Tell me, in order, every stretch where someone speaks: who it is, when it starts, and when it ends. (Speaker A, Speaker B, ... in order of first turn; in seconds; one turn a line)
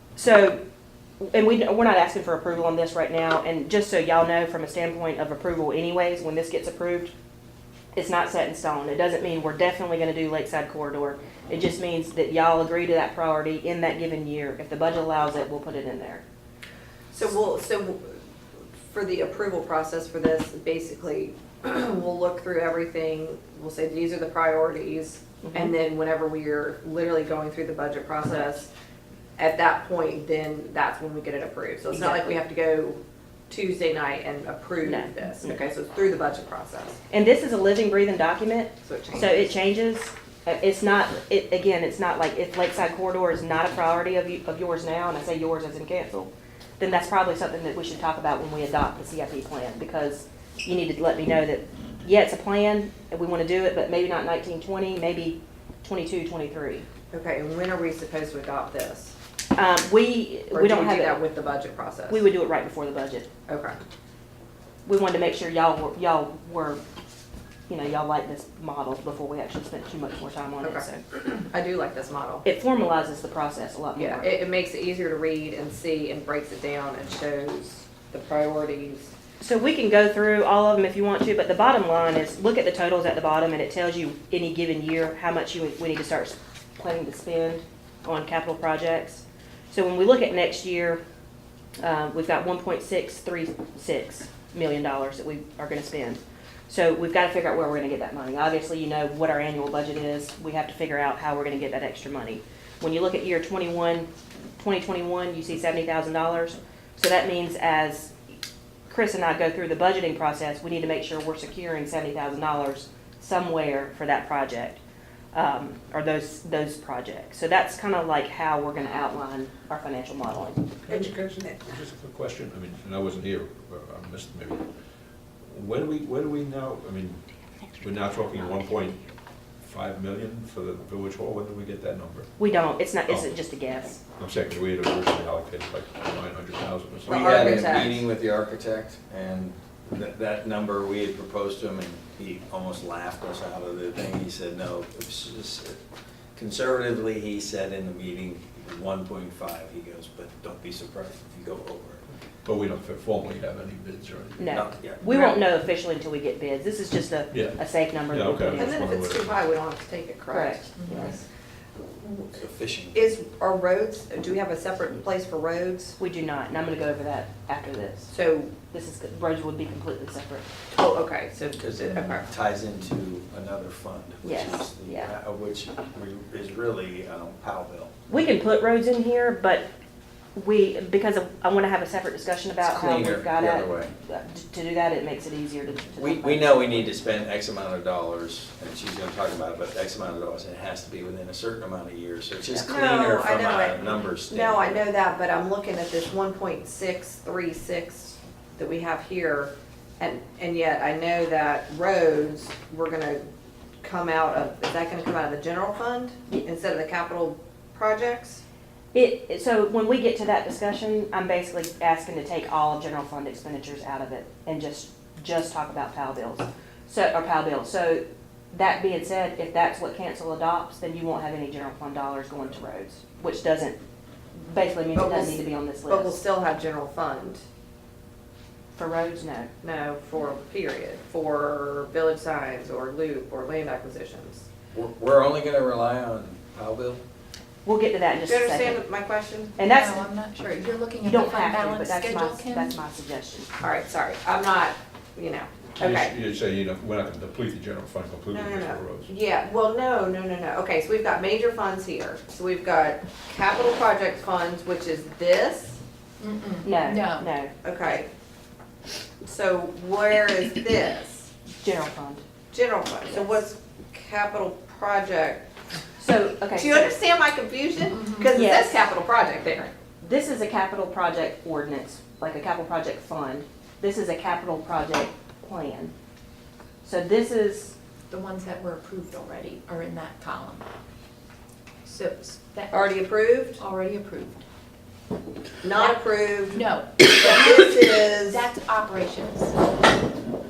Speaker A: 0.2-0.6
Speaker A: 1.2-7.1
Speaker A: 8.0-16.2
Speaker B: 17.1-18.2
Speaker B: 18.9-28.7
Speaker A: 25.4-25.7
Speaker B: 29.4-37.0
Speaker A: 31.9-32.4
Speaker A: 34.8-35.6
Speaker A: 37.1-56.9
Speaker B: 38.9-39.5
Speaker B: 57.1-59.2
Speaker A: 59.5-61.2
Speaker B: 60.5-62.2
Speaker A: 62.1-63.3
Speaker B: 63.5-63.8
Speaker A: 64.9-66.8
Speaker A: 67.7-71.0
Speaker B: 70.6-72.4
Speaker A: 72.4-74.4
Speaker B: 74.0-79.1
Speaker A: 79.4-91.0
Speaker A: 91.8-104.1
Speaker A: 104.6-108.1
Speaker A: 108.9-114.8
Speaker A: 115.3-120.7
Speaker C: 120.8-124.7
Speaker C: 125.5-127.2
Speaker C: 127.8-129.0
Speaker C: 129.6-132.3
Speaker A: 132.4-134.0
Speaker C: 133.1-133.3
Speaker C: 134.2-137.9
Speaker D: 137.1-145.8
Speaker B: 137.1-138.1
Speaker D: 146.3-152.0
Speaker C: 152.4-154.7
Speaker A: 154.4-158.9
Speaker D: 154.5-155.0
Speaker B: 155.1-155.4
Speaker C: 158.1-159.4
Speaker B: 158.6-161.2
Speaker A: 160.3-161.1
Speaker D: 162.3-163.1
Speaker B: 162.9-165.9
Speaker A: 166.0-168.2
Speaker B: 168.1-168.5
Speaker A: 168.7-170.5
Speaker B: 170.7-172.3
Speaker D: 171.6-177.9
Speaker A: 174.2-175.1
Speaker A: 178.1-179.7
Speaker A: 180.3-186.8
Speaker D: 182.6-183.9
Speaker D: 186.0-194.9
Speaker B: 192.7-203.2
Speaker B: 203.8-208.4
Speaker A: 208.9-223.8
Speaker A: 224.3-226.2
Speaker B: 225.0-227.4
Speaker A: 228.8-229.5
Speaker B: 229.6-234.5
Speaker D: 234.7-237.0
Speaker A: 237.7-238.8
Speaker B: 238.3-239.8
Speaker A: 239.6-240.1
Speaker E: 239.7-242.8
Speaker A: 241.0-243.5
Speaker B: 243.6-246.1
Speaker C: 245.8-249.1
Speaker B: 248.3-255.8
Speaker E: 256.2-257.3
Speaker A: 256.6-257.5
Speaker B: 257.6-258.1
Speaker B: 259.2-261.3
Speaker A: 261.6-262.2
Speaker B: 262.5-265.6
Speaker A: 266.0-267.0
Speaker B: 266.5-269.7
Speaker A: 268.3-268.8
Speaker A: 270.0-275.9
Speaker A: 276.8-277.7
Speaker E: 278.1-280.6
Speaker E: 281.9-283.0
Speaker B: 282.7-283.6
Speaker E: 283.6-284.4
Speaker B: 285.6-288.5
Speaker E: 285.7-289.6